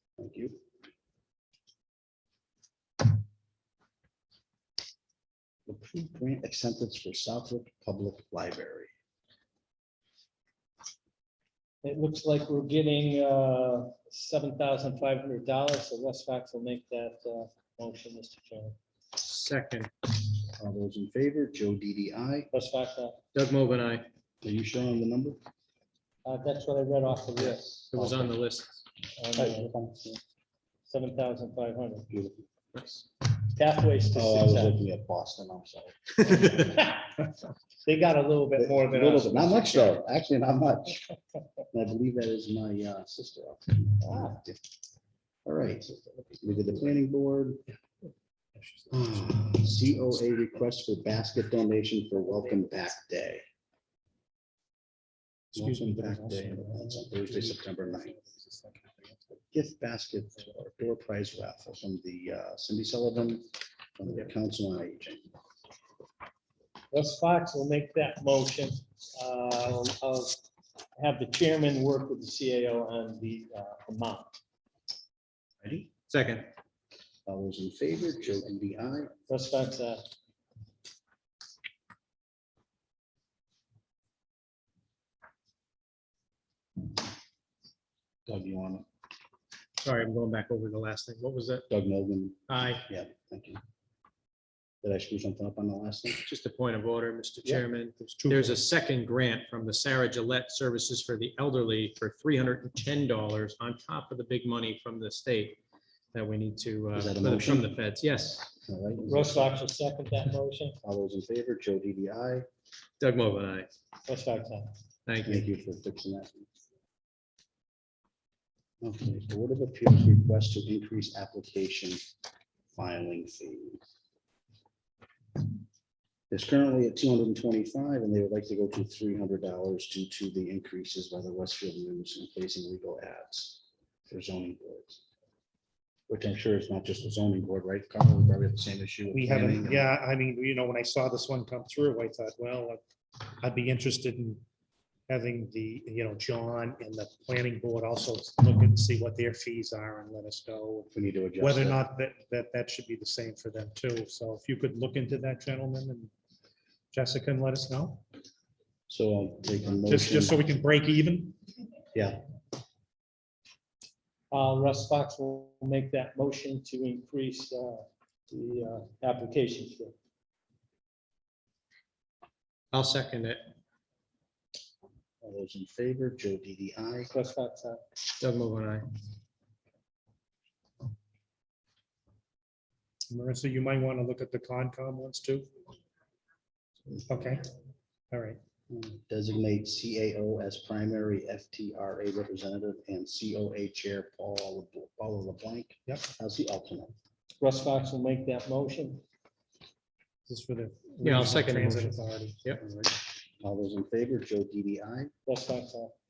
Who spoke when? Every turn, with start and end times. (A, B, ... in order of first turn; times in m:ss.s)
0:00.2-0:00.6 A
0:05.7-0:08.9 A
0:11.8-0:18.8 B
0:19.2-0:19.9 C
0:20.6-0:22.5 A
0:22.5-0:23.2 B
0:23.3-0:24.1 C
0:24.4-0:25.4 A
0:26.2-0:27.6 B
0:27.4-0:28.4 A
0:27.9-0:28.8 C
0:29.2-0:29.7 B
0:29.3-0:30.2 A
0:30.9-0:32.1 B
0:32.1-0:32.4 A
0:32.7-0:33.0 C
0:33.4-0:34.8 B
0:34.1-0:36.6 A
0:36.6-0:36.9 B
0:37.8-0:40.0 D
0:38.6-0:41.1 A
0:41.7-0:44.7 A
0:45.4-0:47.6 A
0:48.6-0:49.6 D
0:48.9-0:53.4 A
0:55.5-0:59.2 D
0:55.5-0:58.1 A
0:59.5-1:03.4 A
1:04.0-1:05.3 A
1:06.9-1:10.4 B
1:11.0-1:14.3 B
1:15.6-1:15.9 A
1:16.1-1:16.5 C
1:17.2-1:19.1 A
1:19.3-1:20.0 B
1:28.2-1:28.8 A
1:29.8-1:31.6 C
1:31.7-1:33.6 A
1:32.5-1:32.8 C
1:34.8-1:36.2 A
1:36.2-1:45.6 C
1:38.0-1:38.6 D
1:46.1-1:48.5 C
1:46.9-1:47.7 A
1:48.6-1:49.5 A
1:49.1-1:50.8 B
1:50.8-1:52.4 A
1:53.0-1:53.7 C
1:54.0-1:54.7 B
1:55.0-1:55.4 C
1:55.2-1:56.4 A
1:58.8-2:02.0 A
2:02.7-2:03.8 A
2:06.3-2:15.0 A
2:16.1-2:19.9 A
2:19.1-2:22.8 D
2:23.4-2:24.4 D
2:25.1-2:30.9 D
2:30.9-2:31.8 A
2:31.4-2:36.1 D
2:36.9-2:38.0 D
2:38.9-2:40.4 A
2:39.8-2:41.4 D
2:41.9-2:42.2 A
2:44.3-2:49.9 B
2:52.7-2:53.5 C
2:55.2-2:57.1 A
2:57.1-2:57.8 B
2:58.2-2:58.8 C
3:03.1-3:05.5 D
3:07.1-3:07.5 D
3:08.1-3:08.4 D
3:08.7-3:16.9 A
3:17.4-3:19.0 B
3:20.3-3:22.9 D
3:21.0-3:22.6 C
3:23.4-3:25.1 A
3:25.3-3:25.9 B